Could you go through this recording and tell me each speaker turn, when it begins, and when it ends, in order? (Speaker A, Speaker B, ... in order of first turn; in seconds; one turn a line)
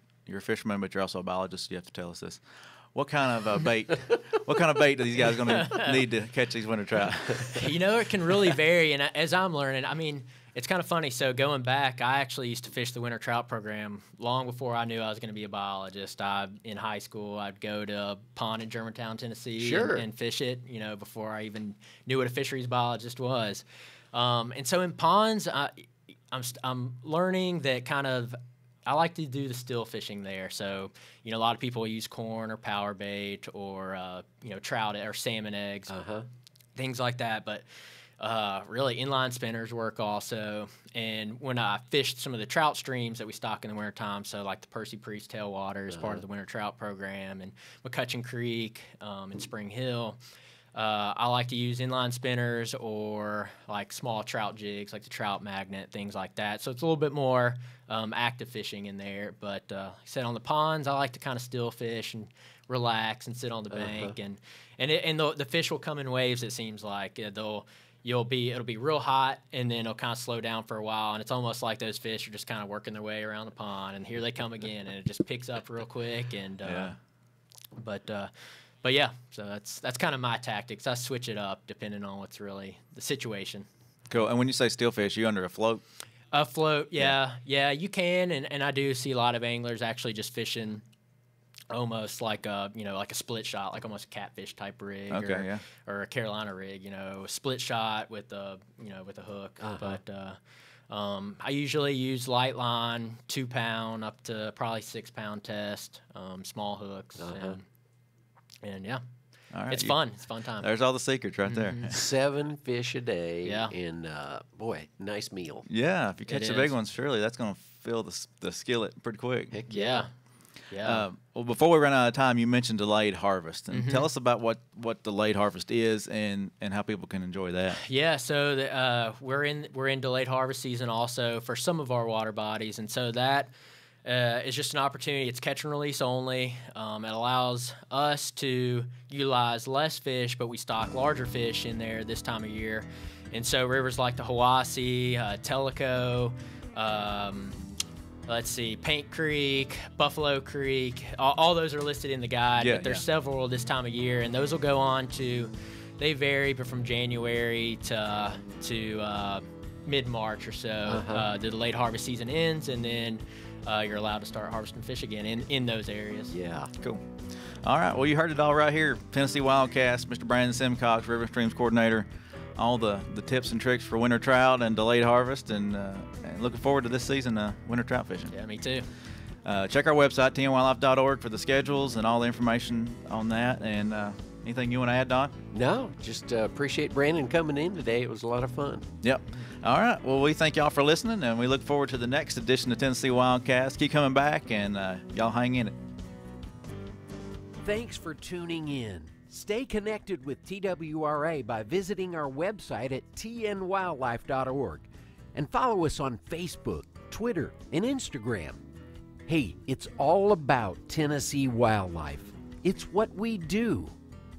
Speaker A: 0.3-2.4
Speaker A: 2.9-7.7
Speaker B: 5.3-6.0
Speaker B: 7.4-35.9
Speaker C: 19.6-20.1
Speaker C: 35.9-36.3
Speaker B: 36.8-37.6
Speaker B: 38.2-50.2
Speaker C: 45.9-46.2
Speaker B: 50.7-77.0
Speaker C: 63.7-64.1
Speaker A: 76.6-77.0
Speaker B: 77.8-78.3
Speaker B: 78.8-83.7
Speaker A: 84.1-85.8
Speaker B: 86.3-90.8
Speaker B: 91.7-100.4
Speaker A: 95.1-95.6
Speaker C: 99.6-100.0
Speaker B: 100.9-107.7
Speaker C: 107.2-107.6
Speaker B: 108.6-109.0
Speaker A: 109.5-110.0
Speaker B: 109.7-110.7
Speaker A: 110.6-112.1
Speaker B: 111.5-111.9
Speaker C: 111.9-115.7
Speaker B: 113.4-113.7
Speaker A: 115.7-119.6
Speaker B: 116.3-116.7
Speaker C: 119.5-120.1
Speaker B: 119.7-120.1
Speaker B: 120.7-121.0
Speaker A: 120.8-127.8
Speaker B: 123.7-124.1
Speaker B: 127.8-133.5
Speaker B: 134.1-147.6
Speaker B: 148.3-166.3
Speaker A: 152.6-153.0
Speaker C: 160.9-161.3
Speaker C: 166.3-166.7
Speaker A: 167.6-178.3
Speaker B: 178.3-178.9
Speaker A: 179.4-185.3
Speaker C: 185.5-188.9
Speaker A: 189.0-195.8
Speaker C: 197.6-208.6
Speaker C: 209.3-214.0